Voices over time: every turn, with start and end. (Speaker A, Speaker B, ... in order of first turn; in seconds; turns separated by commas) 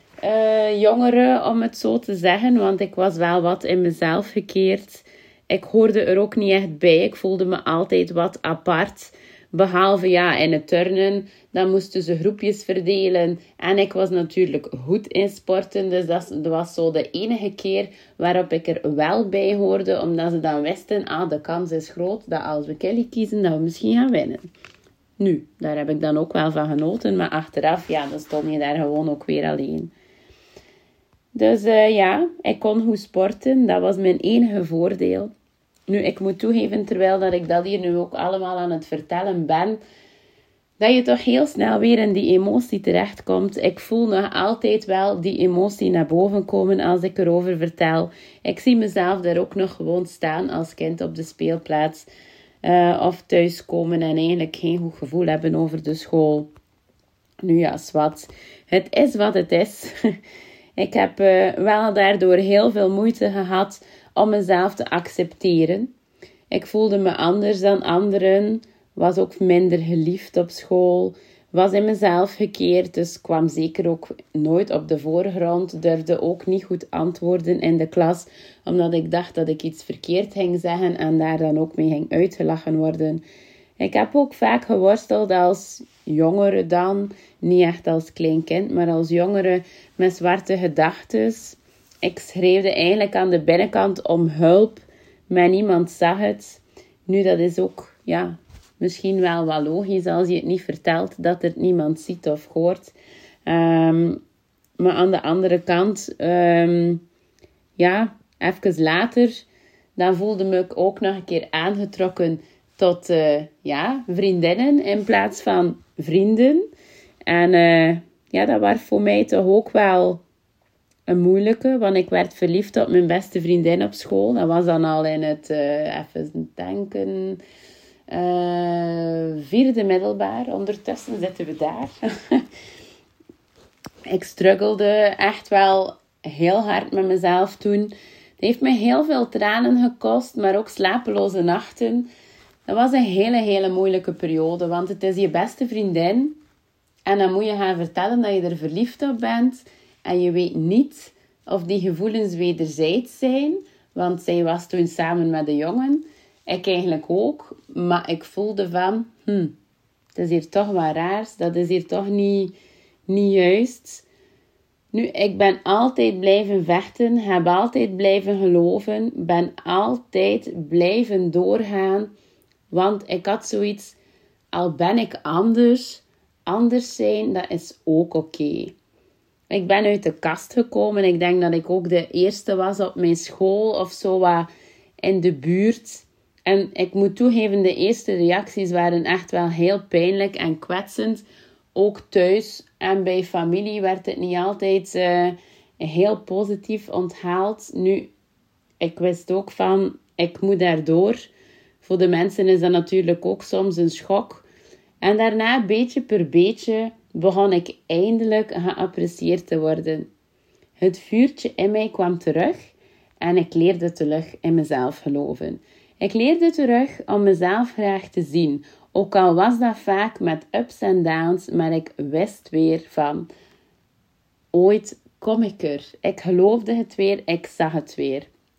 Speaker A: 0.2-24.5, Speaker A: 25.2-29.9, Speaker A: 31.3-35.3, Speaker A: 35.9-39.8, Speaker A: 40.8-52.1, Speaker A: 52.6-56.5, Speaker A: 57.4-59.9, Speaker A: 60.8-65.9, Speaker A: 66.5-83.2, Speaker A: 83.8-102.9, Speaker A: 103.5-104.2, Speaker A: 104.8-107.0, Speaker A: 107.8-109.4, Speaker A: 110.0-116.7, Speaker A: 117.3-120.2, Speaker A: 121.1-127.4, Speaker A: 128.1-132.4, Speaker A: 134.1-142.1, Speaker A: 142.7-146.4, Speaker A: 147.1-159.6, Speaker A: 160.2-162.5, Speaker A: 163.1-164.1, Speaker A: 164.9-172.1, Speaker A: 172.7-174.0, Speaker A: 174.5-178.8, Speaker A: 179.5-184.5, Speaker A: 185.0-191.2, Speaker A: 191.8-198.1, Speaker A: 198.8-201.3, Speaker A: 201.8-204.5, Speaker A: 205.0-210.1, Speaker A: 210.8-212.7, Speaker A: 213.2-223.3, Speaker A: 224.5-228.3